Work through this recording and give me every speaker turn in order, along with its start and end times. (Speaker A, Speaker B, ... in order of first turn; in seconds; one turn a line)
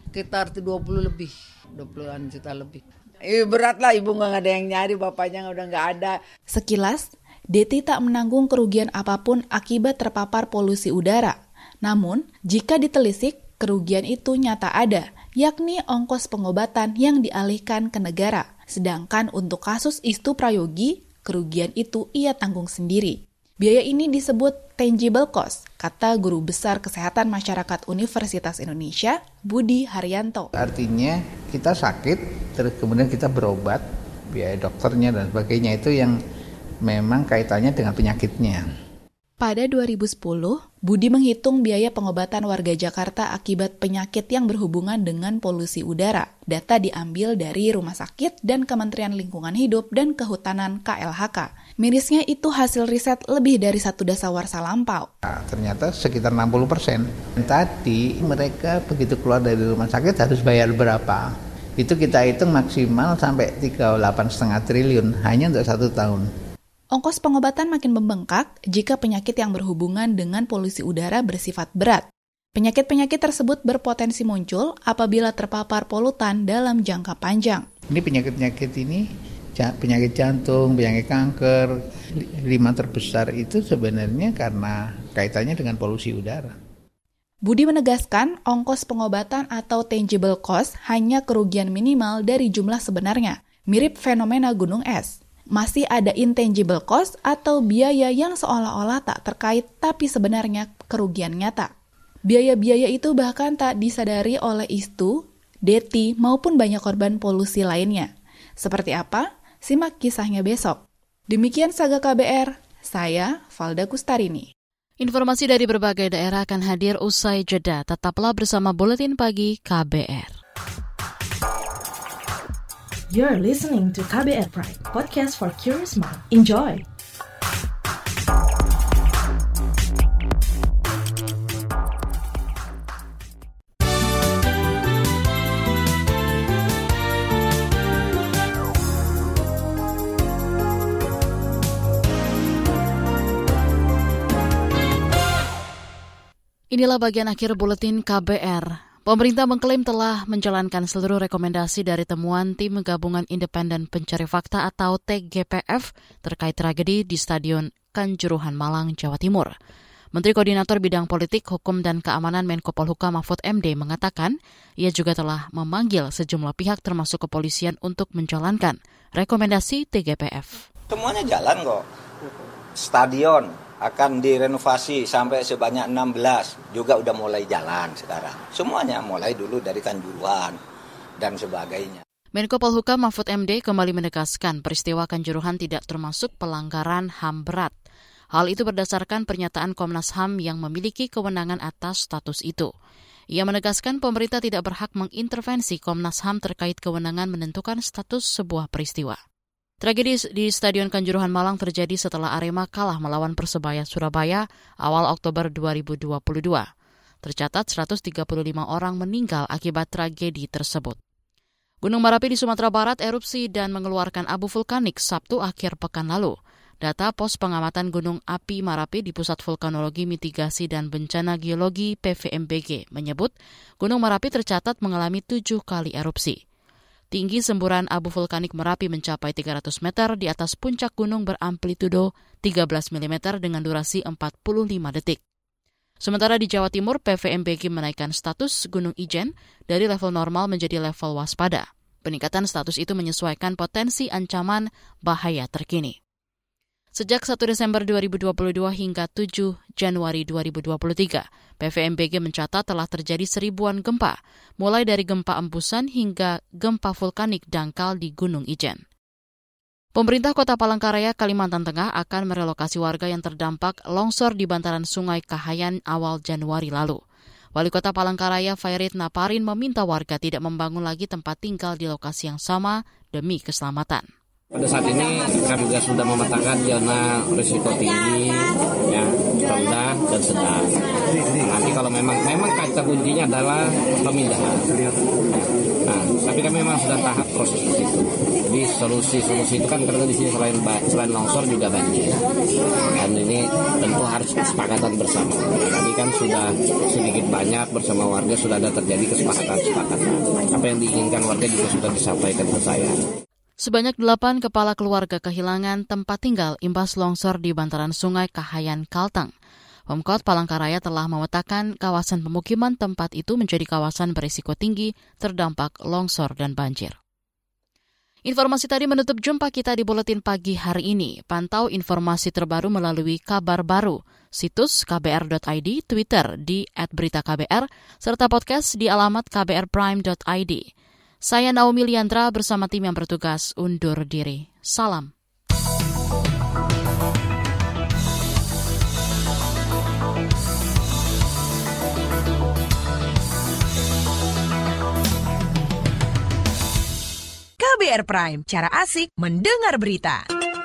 Speaker A: 0.1-6.2
Speaker B: 6.5-30.5
Speaker C: 30.5-36.2
Speaker C: 36.9-38.6
Speaker B: 39.4-55.1
Speaker C: 55.2-61.2
Speaker C: 61.8-66.2
Speaker B: 66.9-72.0
Speaker B: 72.5-77.7
Speaker C: 77.9-86.5
Speaker B: 87.4-101.7
Speaker B: 102.3-114.5
Speaker D: 115.0-120.3
Speaker E: 123.1-126.8
Speaker D: 146.7-159.5
Speaker D: 160.1-170.6
Speaker F: 170.9-171.8
Speaker F: 172.8-180.6
Speaker F: 181.2-182.0
Speaker D: 182.3-187.7
Speaker D: 188.3-192.7
Speaker D: 193.3-199.2
Speaker D: 199.8-206.7
Speaker D: 207.2-211.0
Speaker D: 211.8-226.4
Speaker D: 227.1-235.2
Speaker D: 236.0-246.0
Speaker D: 246.9-258.8
Speaker D: 259.9-267.0
Speaker D: 267.6-274.0
Speaker G: 274.5-278.3
Speaker G: 278.9-280.7
Speaker G: 281.3-292.2
Speaker G: 292.9-302.9
Speaker D: 303.6-309.3
Speaker D: 309.9-317.0
Speaker D: 318.2-330.6
Speaker D: 331.2-335.1
Speaker H: 347.6-350.3